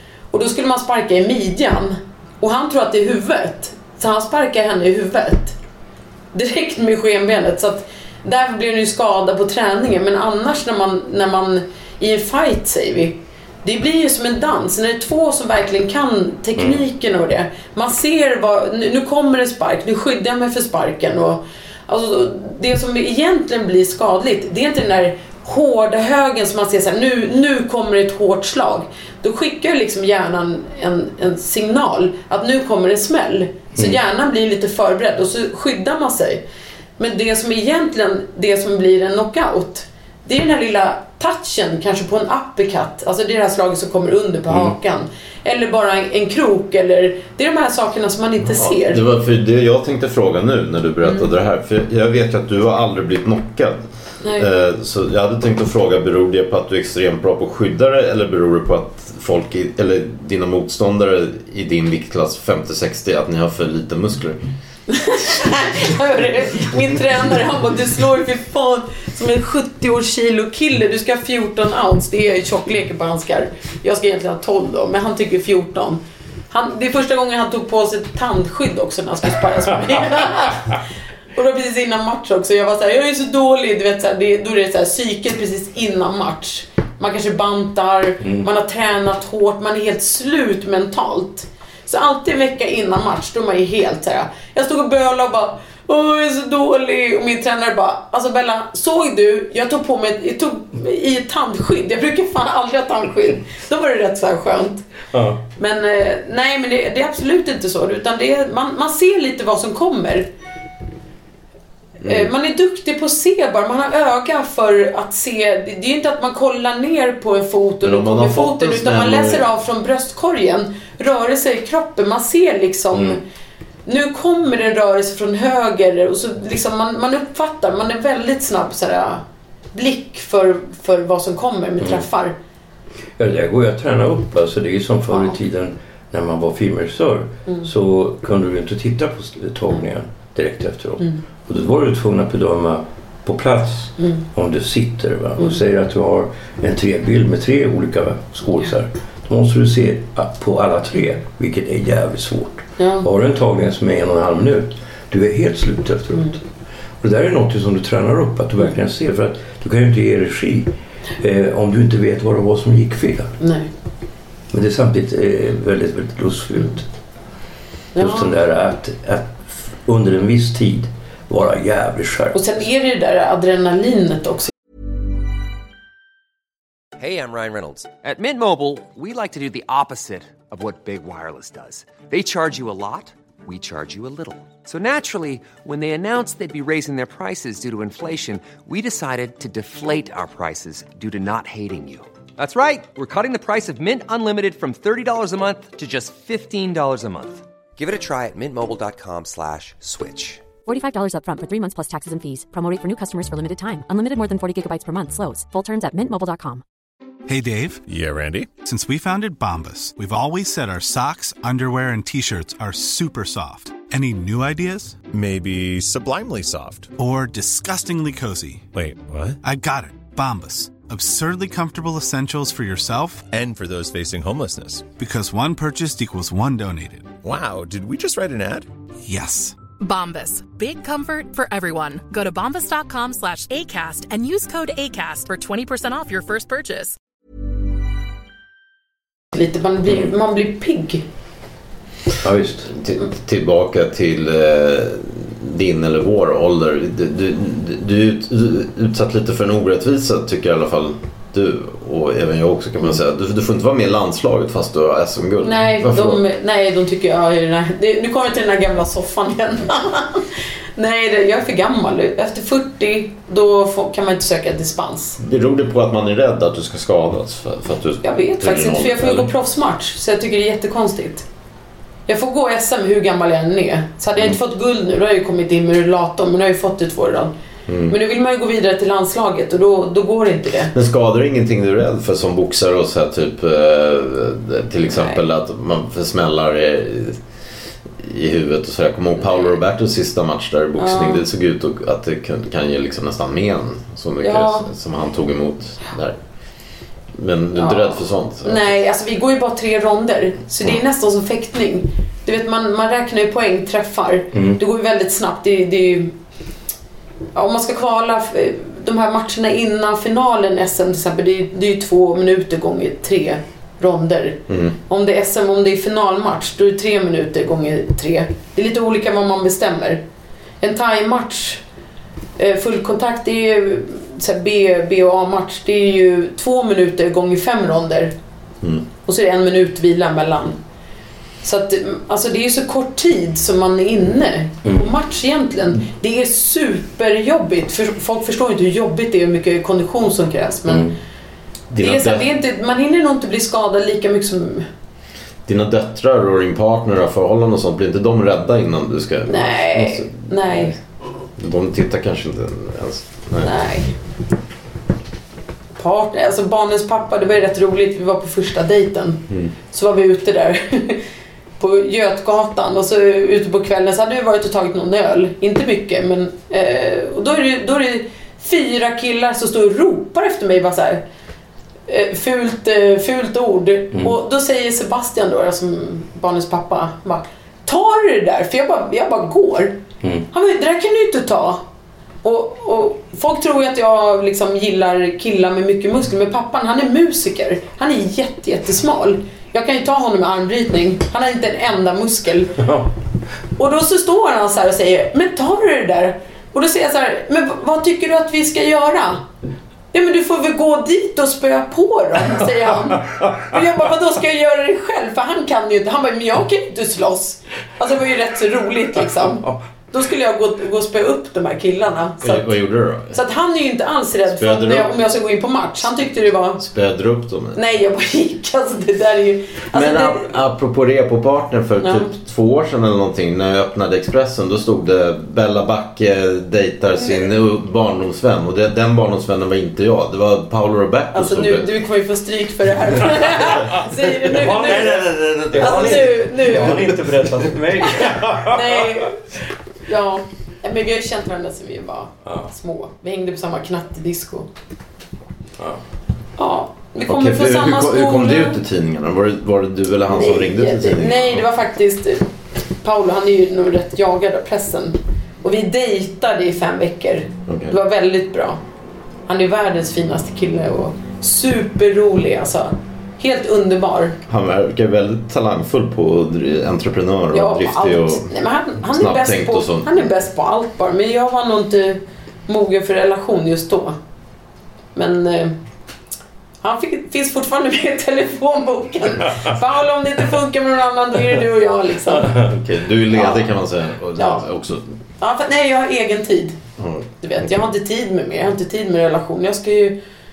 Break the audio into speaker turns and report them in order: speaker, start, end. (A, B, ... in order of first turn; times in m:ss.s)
0:00.3-0:05.6 A
0:06.3-0:36.4 A
0:16.6-0:16.8 B
0:37.0-0:49.0 A
0:44.5-0:44.8 B
0:48.4-0:53.8 C
0:51.0-0:51.3 A
0:54.4-1:04.4 C
1:04.9-1:20.8 A
1:21.4-1:44.8 A
1:28.2-1:28.5 B
1:45.1-1:45.4 B
1:45.6-1:50.3 A
1:52.0-2:03.2 A
1:57.8-1:59.4 C
2:02.9-2:03.2 B
2:03.9-2:09.2 A
2:09.7-2:12.4 A
2:11.8-2:12.1 B
2:13.2-2:36.4 B
2:15.1-2:15.4 A
2:32.8-2:33.1 A
2:37.0-2:43.3 B
2:43.4-2:43.7 A
2:44.5-2:46.9 B
2:48.0-2:48.3 A
2:48.0-2:52.6 B
2:52.3-2:54.5 A
2:57.0-3:20.5 D
3:20.7-3:26.6 E
3:27.3-3:27.8 F
3:27.9-3:28.6 G
3:28.5-3:35.1 F
3:35.1-3:36.9 G
3:37.0-3:38.7 F
3:38.7-3:39.4 G
3:39.4-3:43.3 F
3:43.3-3:44.9 G
3:44.9-3:47.1 F
3:47.2-3:48.7 G
3:49.0-3:49.6 F
3:49.8-3:57.0 H
3:59.3-4:01.0 A
4:02.2-4:02.7 B
4:02.8-4:16.2 C
4:15.4-4:20.3 A
4:20.8-4:25.2 A
4:25.2-4:29.3 C
4:28.0-4:31.3 A
4:32.1-4:37.3 A
4:37.7-4:37.9 C
4:37.9-4:40.7 A
4:40.7-4:47.2 C
4:44.9-4:45.2 A
4:48.0-4:56.2 C
4:50.8-4:51.2 A
4:54.2-4:54.7 A
4:57.2-4:58.8 C
4:57.6-5:06.1 A
5:04.3-5:04.6 B
5:07.3-5:20.0 A
5:14.5-5:14.8 C
5:20.6-5:21.6 A
5:22.4-5:28.1 A
5:29.0-5:30.6 A
5:31.4-5:40.9 A
5:40.7-5:41.0 B
5:41.7-5:42.3 C
5:41.8-5:44.7 A
5:45.5-5:50.8 C
5:49.3-5:50.8 A
5:51.4-5:53.5 C
5:53.4-5:53.9 A
5:55.8-6:01.0 A
6:01.6-6:11.0 A
6:11.9-6:19.8 A
6:20.3-6:21.6 A
6:22.2-6:32.6 A
6:32.6-6:32.9 B
6:33.6-6:39.3 A
6:39.9-6:52.5 A
6:52.2-6:53.2 C
6:53.1-6:56.6 A
6:54.4-6:54.9 C
6:56.6-6:57.6 C
6:57.6-7:00.3 A
6:59.7-7:11.8 C
7:01.8-7:02.1 A
7:07.0-7:07.3 A
7:11.1-7:15.0 A
7:14.2-7:19.0 B
7:14.8-7:16.2 C
7:15.6-7:16.9 A
7:18.5-7:19.3 A
7:19.8-7:24.5 A
7:26.4-7:28.6 A
7:27.1-7:31.5 C
7:30.1-7:32.3 A
7:32.8-7:38.6 A
7:37.5-7:37.8 C
7:39.3-7:44.2 A
7:44.3-7:48.3 C
7:47.3-7:54.0 A
7:48.8-7:50.1 C
7:55.0-7:55.6 A
7:56.6-8:02.4 A
8:02.2-8:02.5 B
8:02.5-8:04.8 C
8:03.1-8:03.5 A
8:04.2-8:04.5 A
8:05.2-8:06.6 A
8:06.8-8:07.6 C
8:07.2-8:10.0 A